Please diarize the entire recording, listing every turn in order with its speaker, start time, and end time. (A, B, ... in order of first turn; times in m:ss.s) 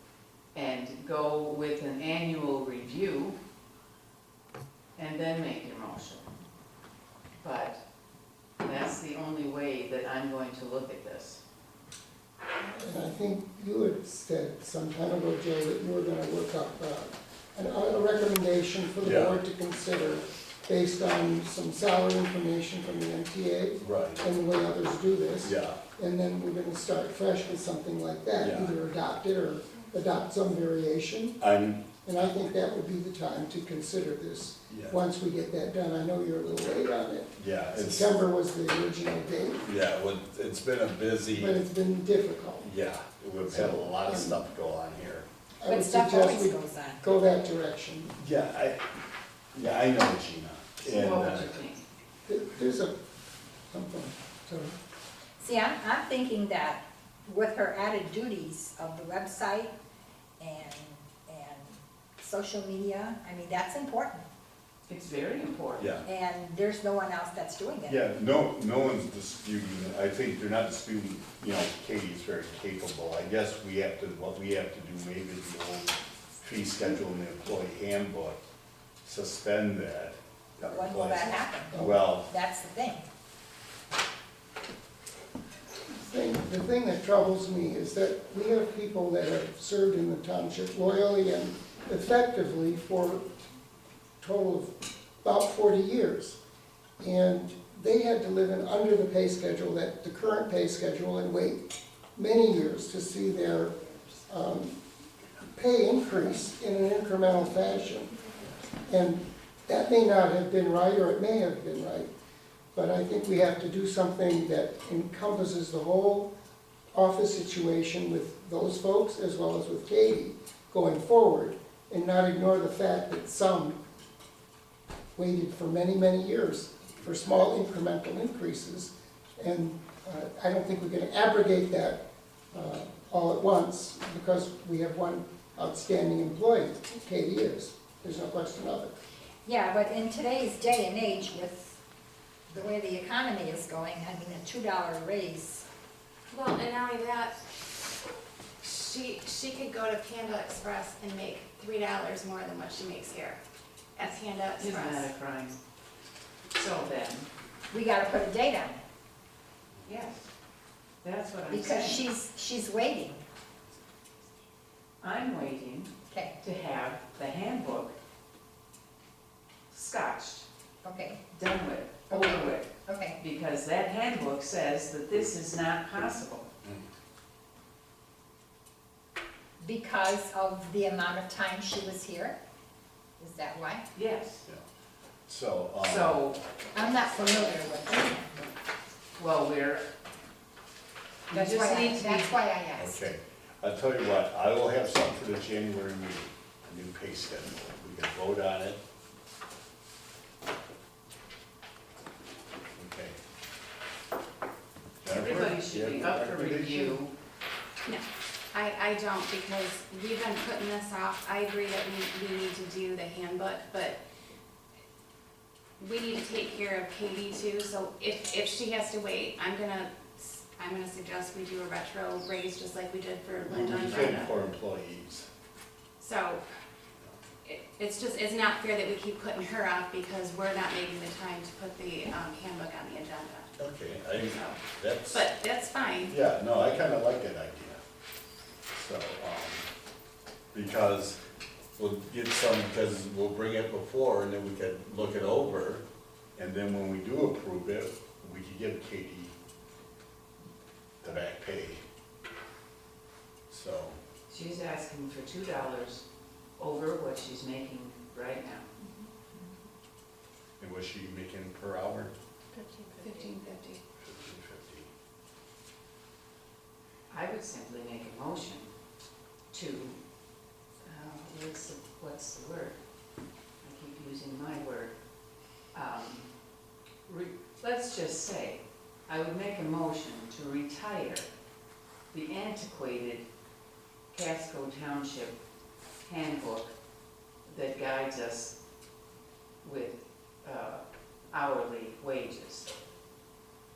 0:00.5-0:03.4 A
0:05.0-0:06.3 A
0:07.4-0:07.8 A
0:08.6-0:11.4 A
0:12.6-0:31.4 B
0:19.0-0:19.4 C
0:23.8-0:24.2 C
0:25.4-0:25.8 C
0:28.4-0:28.8 C
0:31.4-0:32.0 C
0:32.0-0:39.7 B
0:34.7-0:35.0 C
0:37.4-0:38.1 C
0:39.6-0:41.6 C
0:41.3-0:42.7 B
0:42.6-0:45.3 C
0:43.4-0:44.4 B
0:45.6-0:48.1 B
0:45.7-0:47.0 D
0:48.2-0:48.9 C
0:49.5-0:51.5 C
0:50.8-0:51.8 A
0:52.3-0:52.9 B
0:53.7-0:54.8 B
0:55.4-0:59.7 D
1:00.4-1:04.3 D
1:04.9-1:06.0 A
1:05.8-1:06.0 C
1:06.0-1:08.0 D
1:07.9-1:18.4 C
1:19.0-1:22.3 C
1:20.6-1:23.0 D
1:25.9-1:33.3 B
1:34.2-1:36.4 B
1:37.0-1:44.8 B
1:45.5-1:48.3 B
1:48.8-1:52.1 B
1:52.7-1:56.3 B
1:56.9-2:03.8 B
2:05.2-2:12.0 B
2:12.5-2:19.0 B
2:19.4-2:21.8 D
2:22.5-2:25.7 D
2:26.3-2:27.5 E
2:28.6-2:33.4 E
2:34.0-2:35.1 E
2:34.6-2:35.6 A
2:36.5-2:37.3 A
2:37.7-2:38.8 D
2:39.8-2:40.3 A
2:41.0-2:42.0 A
2:41.5-2:43.2 D
2:45.0-2:48.0 A
2:46.1-2:46.4 D
2:49.7-2:50.5 A
2:50.8-2:51.2 D
2:51.3-2:56.5 A
2:52.1-2:53.2 D
2:59.6-3:02.4 D
3:03.2-3:03.9 D
3:03.9-3:04.5 A
3:05.3-3:06.2 C
3:05.8-3:06.4 A
3:06.7-3:08.4 D
3:09.2-3:09.9 A
3:11.3-3:12.3 A
3:11.3-3:13.0 D
3:12.8-3:18.8 C
3:22.8-3:23.2 C
3:25.0-3:27.0 C
3:25.1-3:27.1 A
3:27.8-3:34.0 E
3:35.8-3:44.3 E
3:43.4-3:45.3 C
3:46.0-3:46.4 E
3:47.4-3:53.6 E
3:53.6-3:55.3 C
3:54.1-3:56.2 E
3:56.1-3:57.8 C
3:58.7-3:59.7 C
4:00.5-4:01.2 C
4:01.8-4:05.8 C
4:06.4-4:09.3 C
4:11.0-4:11.8 C
4:13.5-4:14.0 C
4:14.3-4:16.0 A
4:16.6-4:18.7 A
4:20.6-4:22.1 C
4:22.6-4:23.8 E
4:24.0-4:24.9 C
4:27.1-4:28.7 A
4:29.5-4:30.0 A
4:30.8-4:32.8 A
4:33.6-4:34.9 A
4:35.7-4:36.3 A
4:37.1-4:41.3 A
4:42.1-4:43.2 A
4:44.1-4:45.4 A
4:46.0-4:46.7 A
4:47.4-4:48.6 A
4:49.6-4:52.7 A